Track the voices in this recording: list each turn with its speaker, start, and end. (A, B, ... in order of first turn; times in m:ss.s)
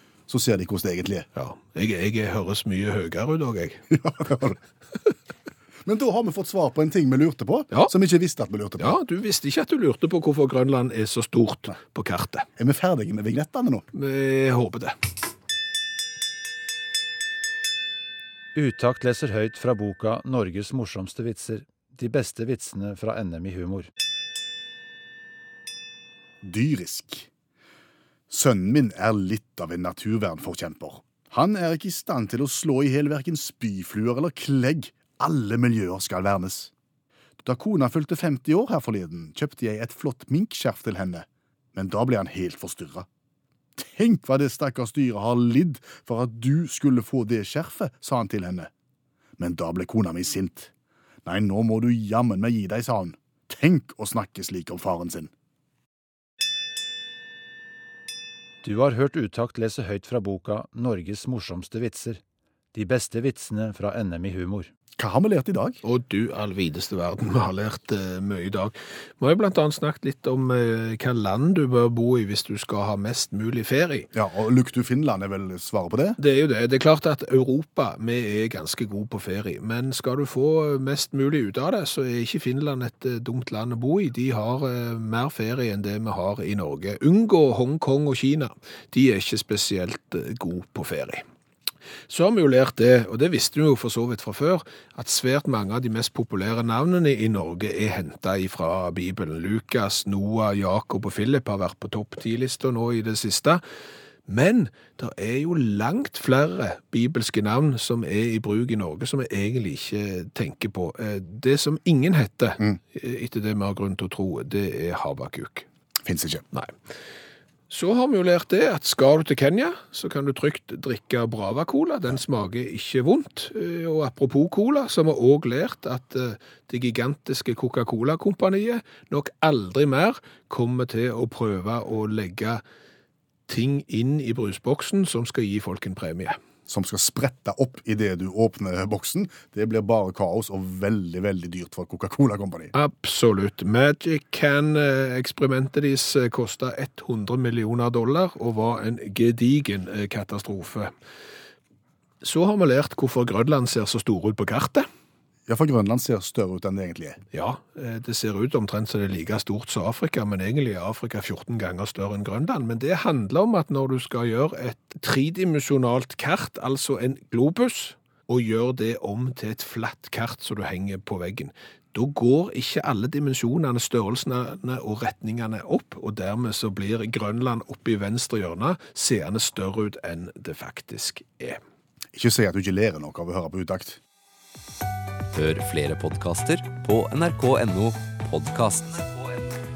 0:00.3-0:01.3 A
0:01.4-0:03.9 B
0:03.9-0:04.6 A
0:05.8-0:09.0 A
0:08.8-0:12.5 B
0:12.6-0:13.9 A
0:13.9-0:15.0 B
0:18.6-0:23.9 C
0:26.4-0:27.3 A
0:28.3-0:36.7 A
0:37.4-0:43.1 A
0:43.8-0:48.7 A
0:49.4-0:50.7 A
0:51.2-0:55.3 A
0:58.6-1:02.2 C
1:02.7-1:04.7 C
1:05.0-1:05.8 A
1:05.8-1:14.1 B
1:14.1-1:16.2 A
1:16.2-1:31.2 B
1:32.1-1:43.6 B
1:44.3-1:55.7 B
1:56.0-1:56.4 A
1:57.7-2:12.6 B
2:13.5-2:16.4 B
2:16.7-2:22.7 A
2:22.7-2:30.9 B
2:32.2-2:34.9 B
2:35.5-2:37.2 A
2:37.3-3:01.6 B
3:02.1-3:04.0 A
3:05.3-3:09.5 D